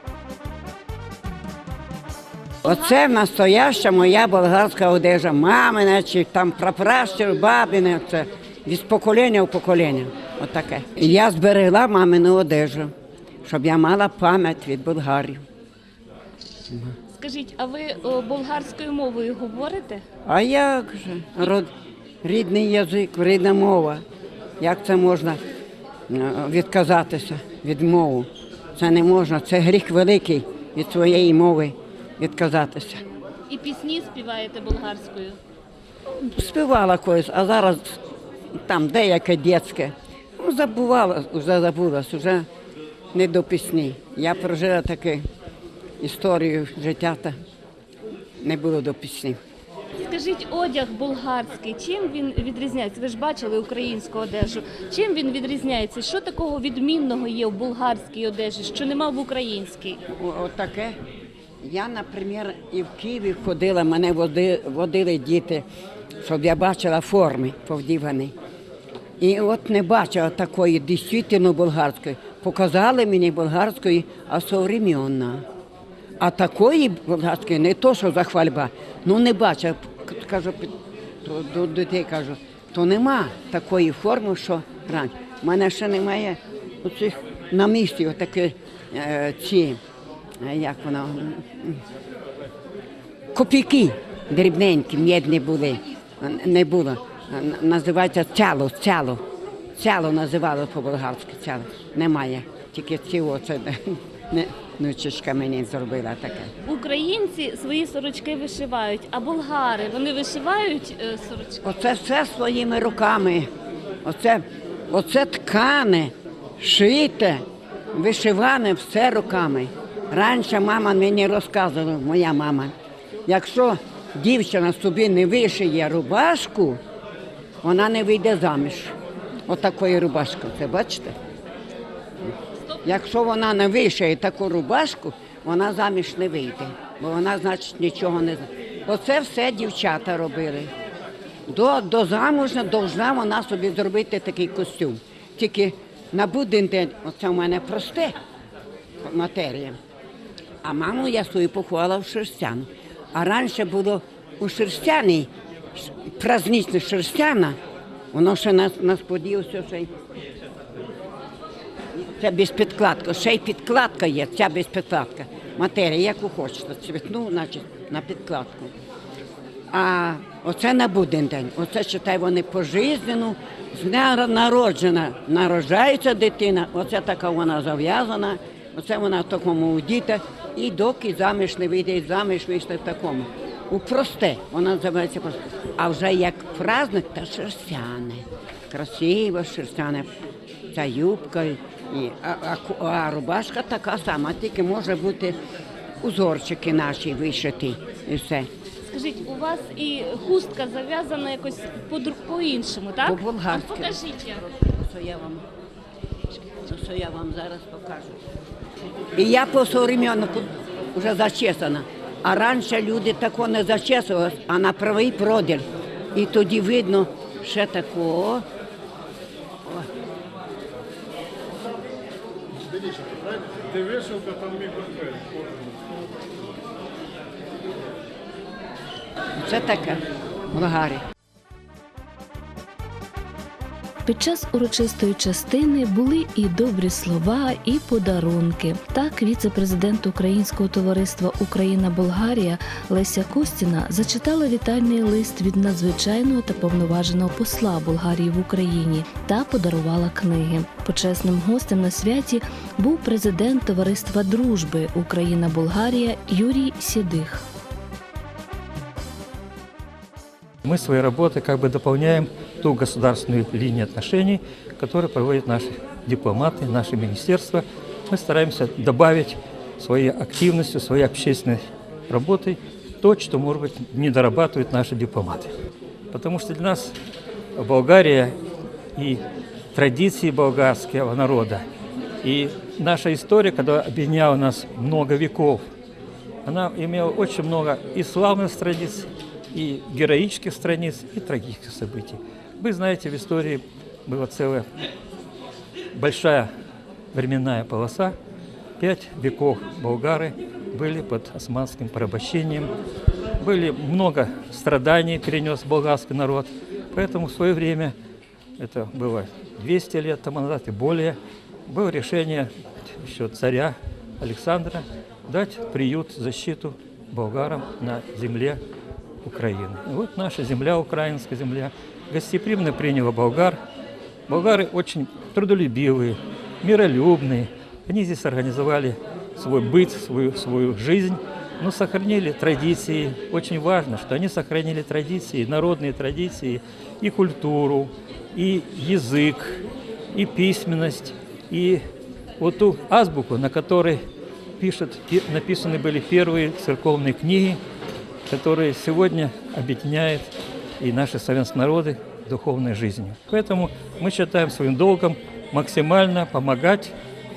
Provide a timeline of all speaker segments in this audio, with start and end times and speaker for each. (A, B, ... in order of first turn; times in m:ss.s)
0:02.6-0:02.9 A
0:02.6-0:12.9 B
0:13.4-0:15.4 B
0:16.7-0:17.0 B
0:17.1-0:20.0 A
0:20.3-0:21.7 B
0:22.2-0:24.0 B
0:24.6-0:25.4 B
0:26.1-0:33.0 B
0:33.5-0:35.4 A
0:36.2-0:38.0 B
0:38.6-0:42.5 B
0:43.1-0:45.3 B
0:46.0-0:47.4 B
0:48.4-0:49.4 B
0:50.0-1:00.0 A
1:00.1-1:01.0 B
1:01.6-1:05.6 B
1:06.2-1:08.3 B
1:09.2-1:15.4 B
1:16.2-1:29.8 B
1:30.4-1:31.8 B
1:33.3-1:39.2 B
1:39.8-1:46.5 B
1:46.6-1:51.6 A
1:51.6-1:53.5 B
1:54.0-2:02.7 B
2:03.3-2:06.8 B
2:07.6-2:08.9 B
2:09.5-2:11.2 B
2:12.8-2:20.7 B
2:21.5-2:28.2 B
2:29.0-2:29.8 B
2:30.6-2:37.6 B
2:38.1-2:39.9 B
2:42.0-2:48.7 B
2:49.7-3:10.1 B
3:10.7-3:15.4 B
3:16.0-3:18.5 B
3:18.9-3:24.4 A
3:23.0-3:25.4 B
3:26.5-3:28.2 B
3:29.2-3:38.4 B
3:49.4-3:50.0 B
3:50.5-3:51.0 B
3:54.1-4:17.5 C
4:20.6-4:35.5 D
4:36.1-4:37.0 D
4:37.6-4:38.4 D
4:39.0-4:39.2 D
4:39.7-4:41.6 D
4:42.2-4:45.6 D
4:46.4-4:54.7 D
4:56.0-4:56.5 D
4:57.1-4:58.2 D
4:58.8-5:02.7 D
5:03.4-5:07.9 D
5:08.6-5:18.6 D
5:19.2-5:23.6 D
5:24.3-5:39.6 D
5:40.1-5:41.8 D
5:42.4-5:44.0 D
5:44.6-5:47.6 D
5:48.3-5:56.9 D